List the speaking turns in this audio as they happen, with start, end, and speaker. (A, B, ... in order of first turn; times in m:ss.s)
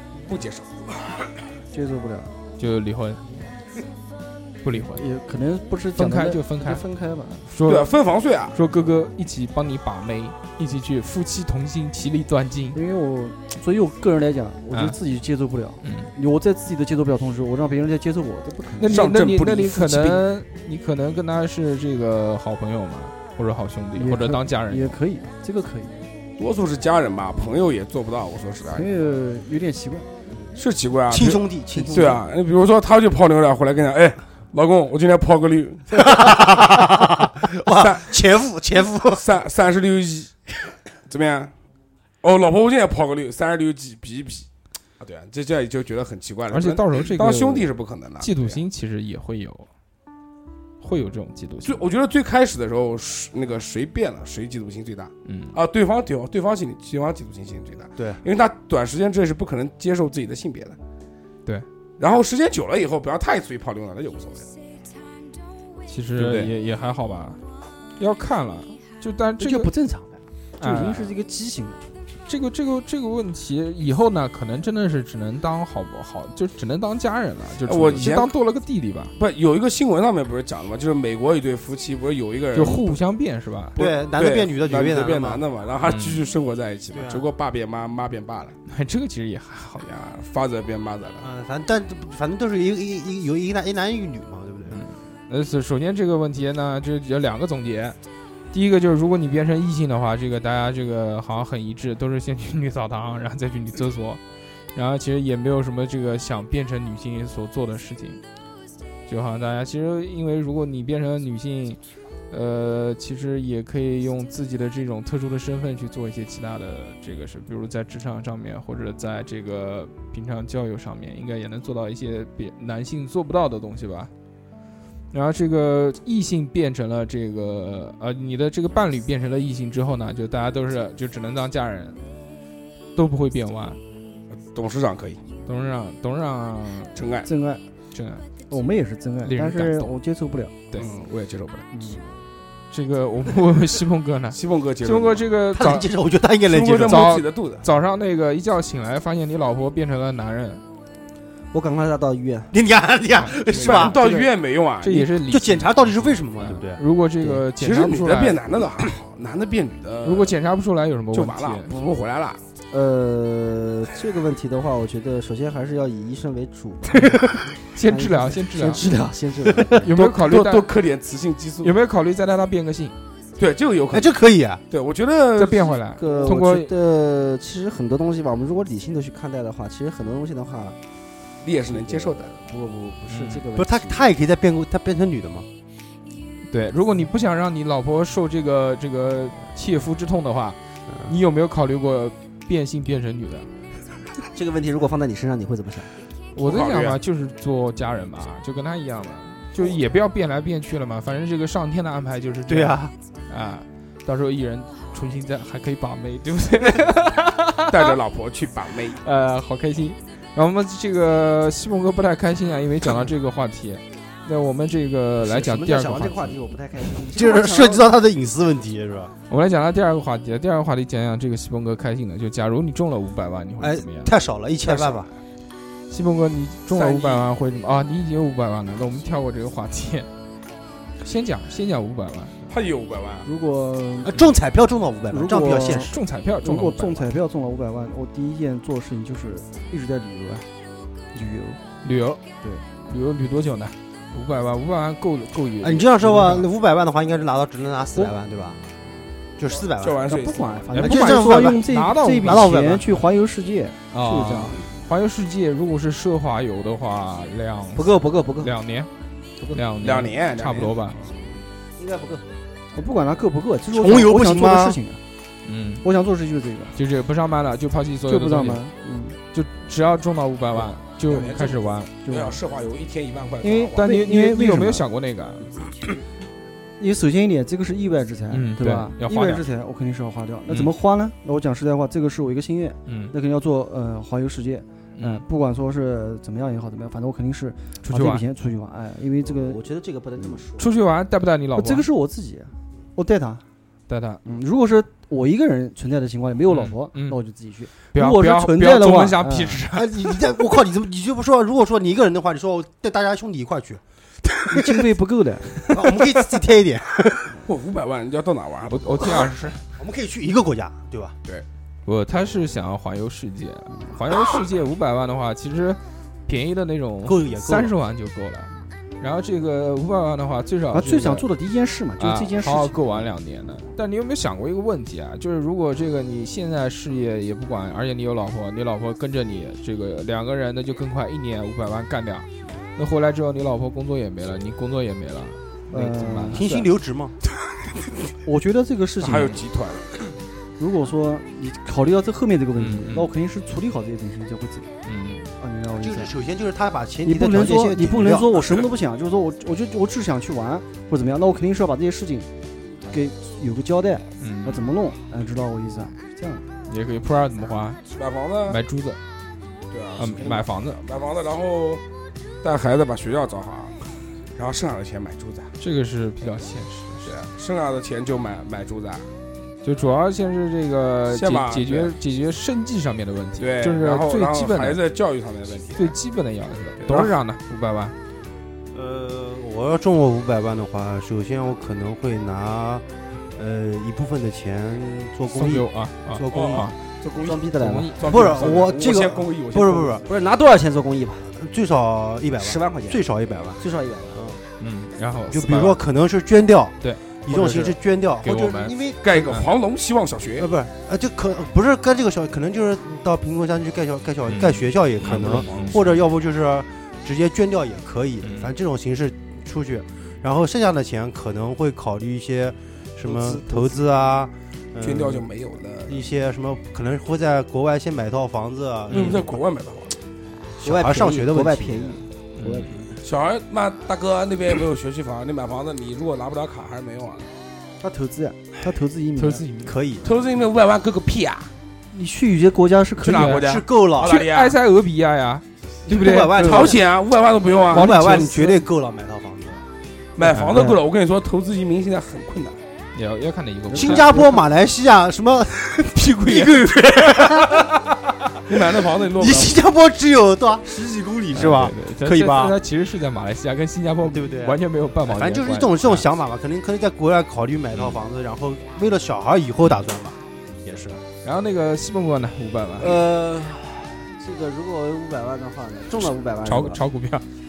0:00.3-0:01.2 A
0:01.7-0:02.3 B
0:02.6-0:03.2 C
0:04.6-0:05.0 C
0:04.9-0:07.4 B
0:06.0-0:06.8 C
0:07.5-0:07.9 C
0:07.6-0:08.6 A
0:08.5-0:12.8 C
0:12.7-0:19.0 B
0:14.7-0:15.0 C
0:15.8-0:16.1 C
0:18.8-0:25.0 C
0:18.9-0:20.3 A
0:24.0-0:26.0 B
0:26.4-0:28.9 A
0:28.7-0:30.1 B
0:30.6-0:36.4 A
0:31.1-0:32.2 D
0:35.9-0:39.2 D
0:37.6-0:38.1 A
0:39.1-0:40.5 A
0:41.1-0:41.5 A
0:42.2-0:44.5 A
0:45.0-0:48.6 A
0:46.5-0:47.7 C
0:48.2-0:49.7 C
0:50.8-0:51.8 C
0:51.6-1:00.8 A
0:55.3-0:55.6 C
0:58.0-0:58.2 D
1:02.0-1:04.5 A
1:05.9-1:07.4 C
1:06.2-1:06.5 A
1:08.0-1:09.7 C
1:09.4-1:11.8 B
1:10.6-1:11.1 C
1:12.3-1:19.1 C
1:17.6-1:18.3 A
1:19.2-1:23.0 A
1:22.6-1:23.8 C
1:23.8-1:25.4 D
1:23.8-1:28.6 A
1:25.9-1:26.2 C
1:26.9-1:27.3 D
1:28.7-1:29.9 C
1:29.8-1:31.2 A
1:31.2-1:34.8 D
1:34.7-1:38.0 C
1:38.5-1:44.2 C
1:44.7-1:48.2 C
1:49.1-1:51.8 C
1:52.3-2:04.1 C
2:05.1-2:12.0 C
2:13.0-2:13.8 C
2:14.4-2:15.2 A
2:15.5-2:16.9 C
2:17.0-2:17.3 A
2:17.2-2:17.6 B
2:17.9-2:18.2 C
2:18.5-2:20.5 B
2:19.2-2:19.9 C
2:20.8-2:21.7 A
2:21.7-2:22.0 B
2:22.7-2:25.9 C
2:24.3-2:25.3 A
2:25.5-2:27.1 D
2:26.5-2:27.6 A
2:26.8-2:30.6 C
2:31.5-2:32.5 E
2:32.5-2:34.0 D
2:33.4-2:34.3 C
2:33.5-2:35.1 A
2:34.8-2:38.4 C
2:35.3-2:36.8 D
2:37.6-2:40.4 A
2:40.0-2:41.7 C
2:41.1-2:42.4 A
2:42.7-2:47.2 E
2:47.7-2:48.9 C
2:47.8-2:49.9 E
2:49.8-2:50.7 C
2:49.9-2:51.7 A
2:51.6-2:53.0 C
2:53.4-2:54.1 A
2:53.9-2:54.6 D
2:54.7-2:55.8 A
2:55.4-2:56.7 C
2:56.0-3:00.8 E
3:01.4-3:02.3 A
3:01.7-3:04.1 E
3:03.1-3:03.4 C
3:03.6-3:05.5 D
3:06.5-3:13.5 C
3:14.3-3:15.9 E
3:16.4-3:28.0 C
3:16.4-3:17.0 A
3:22.5-3:22.9 D
3:27.7-3:29.0 A
3:29.0-3:36.4 C
3:35.2-3:37.9 E
3:37.1-3:39.1 D
3:39.3-3:44.1 C
3:43.6-3:45.1 D
3:44.6-3:45.1 A
3:45.9-3:50.1 C
3:46.7-3:47.3 A
3:51.0-3:52.4 C
3:52.5-3:53.3 A
3:53.2-3:54.3 B
3:54.0-3:56.0 D
3:55.1-4:00.5 B
3:55.9-3:57.1 C
4:01.1-4:01.6 B
4:01.8-4:02.2 C
4:02.9-4:06.5 C
4:05.6-4:08.6 D
4:09.4-4:11.7 D
4:09.8-4:10.7 A
4:10.1-4:14.5 B
4:10.8-4:12.8 C
4:12.3-4:12.8 D
4:13.9-4:18.9 C
4:17.8-4:18.5 E
4:19.5-4:21.0 C
4:19.8-4:21.1 A
4:21.8-4:22.2 E
4:22.8-4:25.0 B
4:23.7-4:24.8 D
4:25.4-4:25.8 C
4:25.8-4:26.8 B
4:26.8-4:28.6 C
4:28.1-4:29.2 B
4:29.3-4:31.9 C
4:31.1-4:33.8 A
4:32.0-4:32.4 B
4:33.4-4:34.9 B
4:33.8-4:35.5 C
4:36.8-4:49.6 B
4:38.3-4:39.4 C
4:42.9-4:43.1 C
4:45.0-4:45.2 C
4:47.8-4:48.2 C
4:49.3-4:50.7 E
4:50.6-4:51.9 C
4:51.6-4:53.4 B
4:53.9-4:54.2 C
4:54.2-4:59.6 B
4:56.5-4:57.2 C
4:57.9-5:00.0 C
4:59.7-5:03.8 D
5:04.5-5:04.8 D
5:04.5-5:05.5 B
5:05.7-5:07.4 D
5:07.4-5:09.3 A
5:08.7-5:09.6 C
5:09.8-5:11.2 D
5:11.9-5:21.3 C
5:17.0-5:17.7 D
5:20.7-5:22.8 B
5:22.0-5:36.6 C
5:35.7-5:36.6 B
5:36.3-5:37.2 D
5:38.2-5:39.4 B
5:39.0-5:39.9 A
5:39.1-5:39.3 C
5:40.6-5:44.7 B
5:42.6-5:43.1 C
5:44.8-5:45.3 C
5:45.4-5:46.1 B
5:45.8-5:48.3 D
5:47.0-5:52.3 B
5:52.9-5:56.4 B
5:54.2-5:54.7 C
5:56.7-5:57.8 C
5:58.0-5:58.6 A
5:58.5-5:59.0 C
5:59.7-6:01.8 A
6:00.0-6:00.8 C
6:02.4-6:03.8 A
6:04.4-6:05.5 A
6:05.6-6:07.1 C
6:07.0-6:09.1 A
6:09.6-6:14.8 C
6:11.1-6:12.0 A
6:13.4-6:16.0 A
6:15.8-6:18.0 C
6:16.8-6:17.1 A
6:18.7-6:22.8 D
6:23.4-6:26.8 D
6:25.3-6:26.8 C
6:26.3-6:27.4 A
6:27.2-6:28.2 E
6:27.6-6:28.1 C
6:28.0-6:30.0 A
6:28.0-6:30.0 D
6:30.0-6:31.3 E
6:31.3-6:33.6 D
6:32.4-6:33.1 E
6:33.6-6:34.3 E
6:34.6-6:35.8 C
6:35.3-6:39.4 D
6:37.3-6:37.6 E
6:38.2-6:38.8 C
6:39.0-6:40.5 A
6:40.4-6:55.3 D
6:44.3-6:46.0 C
6:45.0-6:45.9 A
6:48.2-6:48.5 C
6:53.0-6:53.8 E
6:54.8-6:56.1 A
6:55.9-6:59.4 D
6:58.9-7:00.0 A
7:00.6-7:03.0 E
7:00.6-7:02.0 D
7:02.4-7:02.7 C
7:03.0-7:07.3 A
7:07.8-7:09.4 B
7:09.2-7:09.8 C
7:09.6-7:10.1 D
7:10.0-7:11.5 A
7:11.9-7:13.4 B
7:13.0-7:14.6 A
7:13.1-7:13.4 C
7:13.3-7:14.2 D
7:14.0-7:16.8 C
7:15.9-7:16.8 D
7:16.4-7:18.0 A
7:17.7-7:19.6 D
7:17.8-7:18.6 C
7:20.2-7:22.6 A
7:20.2-7:20.7 C
7:23.0-7:24.2 C
7:23.7-7:27.8 D
7:24.1-7:24.4 B
7:25.9-7:26.7 C
7:28.5-7:29.6 A
7:29.1-7:32.6 D
7:31.3-7:36.0 C
7:34.0-7:41.0 D
7:41.2-7:43.0 C
7:42.8-7:46.8 E
7:42.9-7:43.6 D
7:46.4-7:47.2 C